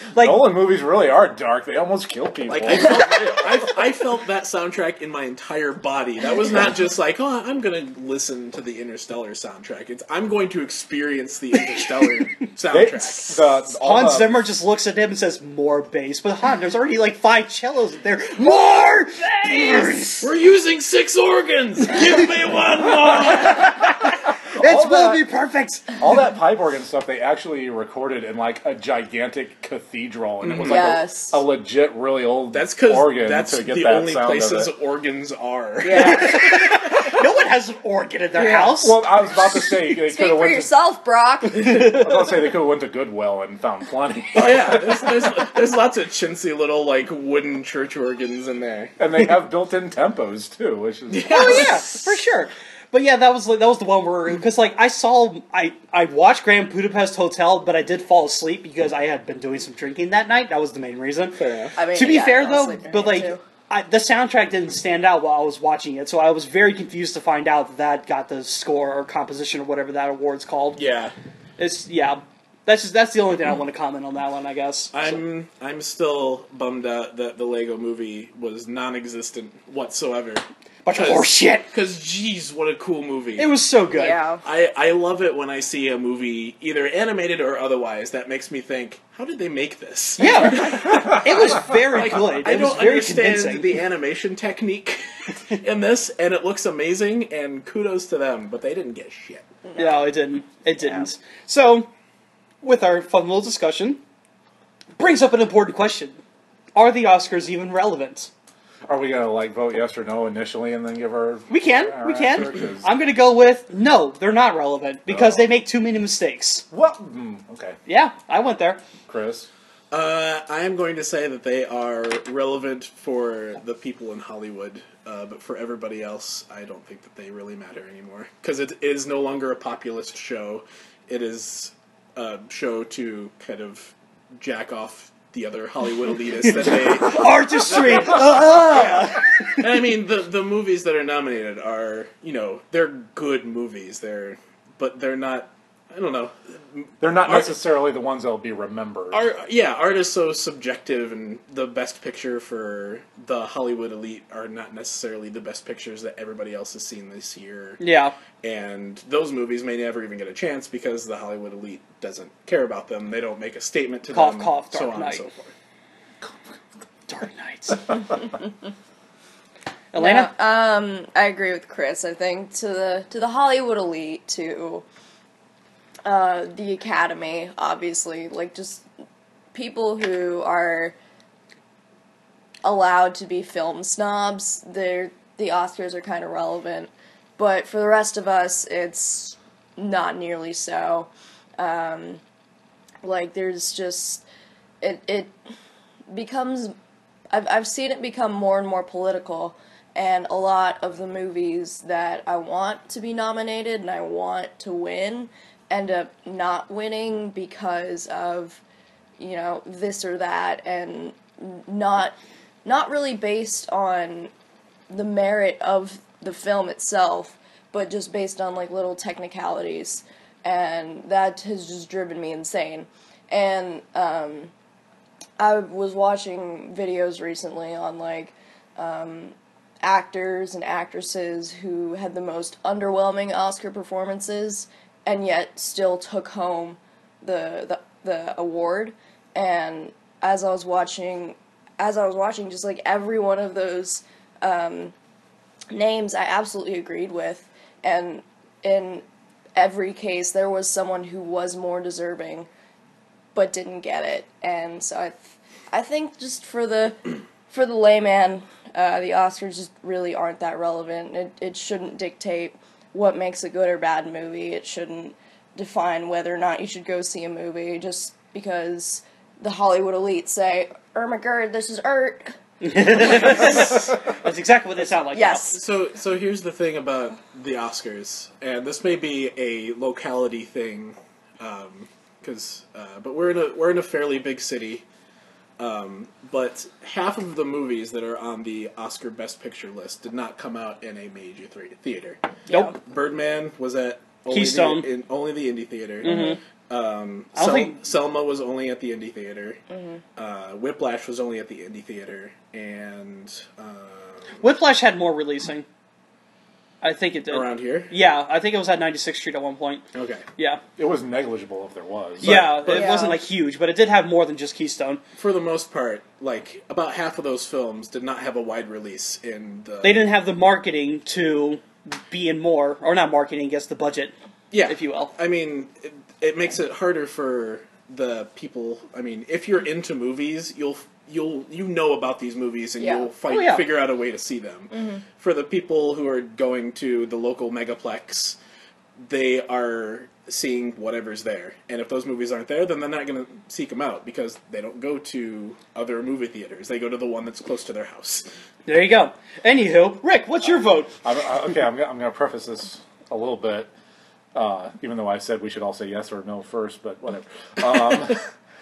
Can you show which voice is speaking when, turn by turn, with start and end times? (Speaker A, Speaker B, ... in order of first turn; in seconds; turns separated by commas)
Speaker A: 0.1-0.4, Speaker B: 0.1-3.2, Speaker C: 2.5-13.4, Speaker B: 12.7-14.5, Speaker A: 13.8-20.3, Speaker C: 19.7-23.8, Speaker B: 23.0-23.7, Speaker A: 23.3-25.9, Speaker B: 24.3-25.2, Speaker B: 25.9-34.7, Speaker C: 30.4-30.9, Speaker D: 30.6-31.4, Speaker C: 32.5-37.0, Speaker D: 35.8-36.5, Speaker A: 35.9-39.0, Speaker C: 38.4-38.7, Speaker B: 38.6-40.7, Speaker D: 39.9-42.0, Speaker B: 41.7-45.1, Speaker C: 44.3-48.9, Speaker B: 49.0-51.8, Speaker C: 51.1-52.1, Speaker A: 51.3-61.4, Speaker C: 61.3-61.8, Speaker D: 61.8-63.4, Speaker A: 61.9-70.8, Speaker C: 70.7-71.1, Speaker A: 71.6-75.1, Speaker C: 74.9-83.5, Speaker A: 80.8-81.7, Speaker A: 83.4-84.2, Speaker D: 83.9-84.4, Speaker C: 84.4-99.4, Speaker A: 90.2-93.7, Speaker B: 90.9-91.2, Speaker D: 99.7-100.1, Speaker A: 99.8-101.9, Speaker A: 102.6-104.0, Speaker A: 105.0-106.2, Speaker A: 106.7-108.3, Speaker B: 108.9-112.9, Speaker A: 111.5-116.6, Speaker B: 115.1-115.5, Speaker B: 116.7-117.8, Speaker A: 117.8-118.8, Speaker B: 119.1-119.5, Speaker C: 119.9-147.5, Speaker A: 136.6-139.7, Speaker B: 147.0-149.2, Speaker C: 149.1-157.8, Speaker A: 157.8-158.2, Speaker C: 158.4-165.5, Speaker A: 164.1-165.3, Speaker A: 167.1-168.0, Speaker A: 169.9-170.3, Speaker D: 169.9-174.8, Speaker D: 176.0-178.8, Speaker D: 179.5-180.9, Speaker D: 182.6-192.2, Speaker D: 193.0-194.2, Speaker D: 194.8-195.3, Speaker D: 196.1-196.7, Speaker D: 197.3-208.6, Speaker D: 209.2-214.3, Speaker D: 214.9-224.5, Speaker D: 225.4-244.9, Speaker D: 245.7-249.0, Speaker D: 249.6-252.5, Speaker D: 253.3-272.3, Speaker A: 272.6-275.6, Speaker D: 273.0-273.6, Speaker D: 275.1-275.6, Speaker C: 275.5-284.8, Speaker C: 285.6-292.2, Speaker D: 292.5-292.7, Speaker A: 292.5-292.7, Speaker C: 292.8-299.6, Speaker A: 294.3-294.9, Speaker A: 296.0-296.4, Speaker A: 297.3-297.8, Speaker D: 299.7-300.0, Speaker C: 300.1-304.4, Speaker A: 304.4-305.6, Speaker A: 306.8-309.8, Speaker C: 307.3-307.9, Speaker C: 309.9-310.2, Speaker B: 310.8-312.5, Speaker C: 312.2-313.1, Speaker A: 312.2-315.0, Speaker D: 312.7-313.2, Speaker C: 315.1-320.1, Speaker A: 319.8-324.1, Speaker C: 324.5-338.4, Speaker A: 324.7-325.1, Speaker D: 332.8-333.1, Speaker A: 333.2-333.7, Speaker D: 334.7-335.0, Speaker C: 339.0-348.3, Speaker A: 348.6-350.9, Speaker B: 351.0-353.7, Speaker B: 354.3-358.2